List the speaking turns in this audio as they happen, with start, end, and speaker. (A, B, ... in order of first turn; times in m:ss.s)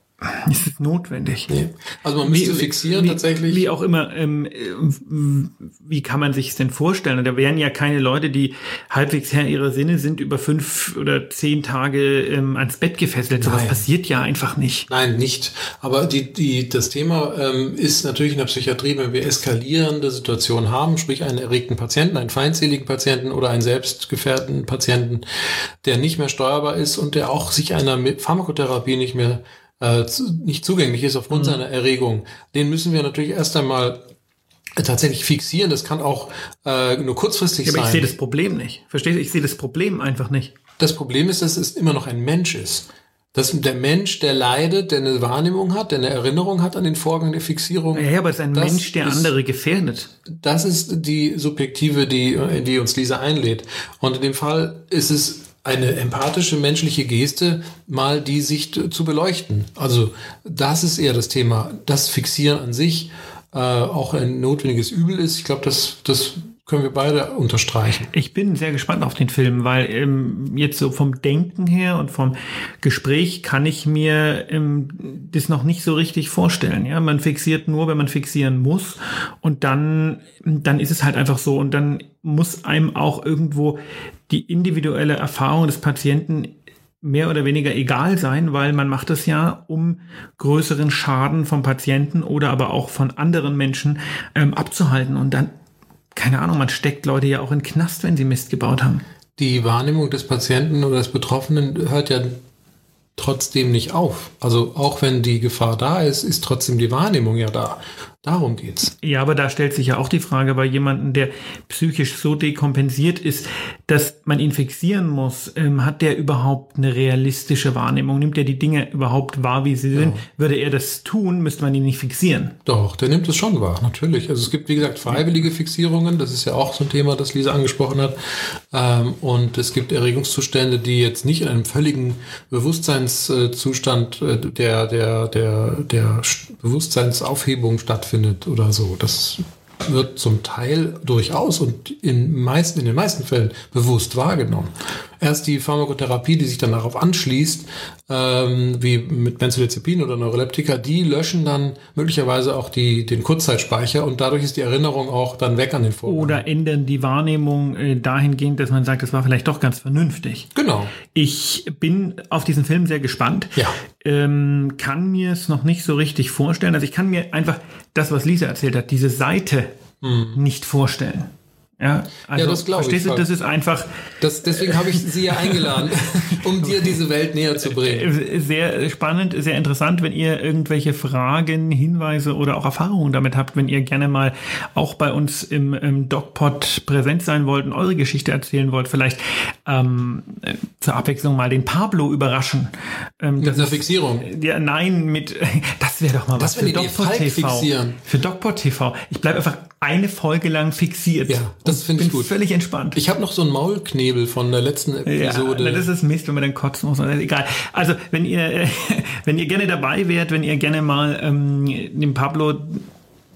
0:00.2-0:01.5 A
0:01.5-0:03.6 B
0:02.2-0:14.9 A
0:13.4-0:13.8 B
0:14.9-0:25.2 B
0:25.8-0:34.0 B
0:31.3-0:31.6 A
0:34.8-0:38.1 B
0:37.6-0:40.5 A
0:40.8-0:49.3 B
0:47.9-0:50.1 A
0:50.3-1:08.1 B
1:08.1-1:35.5 A
1:36.1-1:39.0 A
1:39.4-1:42.4 B
1:43.2-1:48.9 B
1:49.0-2:02.6 A
1:59.9-2:00.2 B
2:02.6-2:08.2 B
2:08.7-2:36.4 B
2:36.0-2:40.5 A
2:40.5-2:40.9 B
2:41.1-2:49.7 A
2:50.0-2:50.4 B
2:50.3-2:53.9 A
2:52.3-2:53.3 B
2:54.2-2:58.1 B
2:54.5-2:55.8 A
2:56.6-2:57.0 A
2:57.6-3:23.0 A
3:13.4-3:14.3 B
3:16.4-3:18.0 B
3:21.3-3:22.3 B
3:22.9-3:25.9 B
3:25.0-3:32.8 A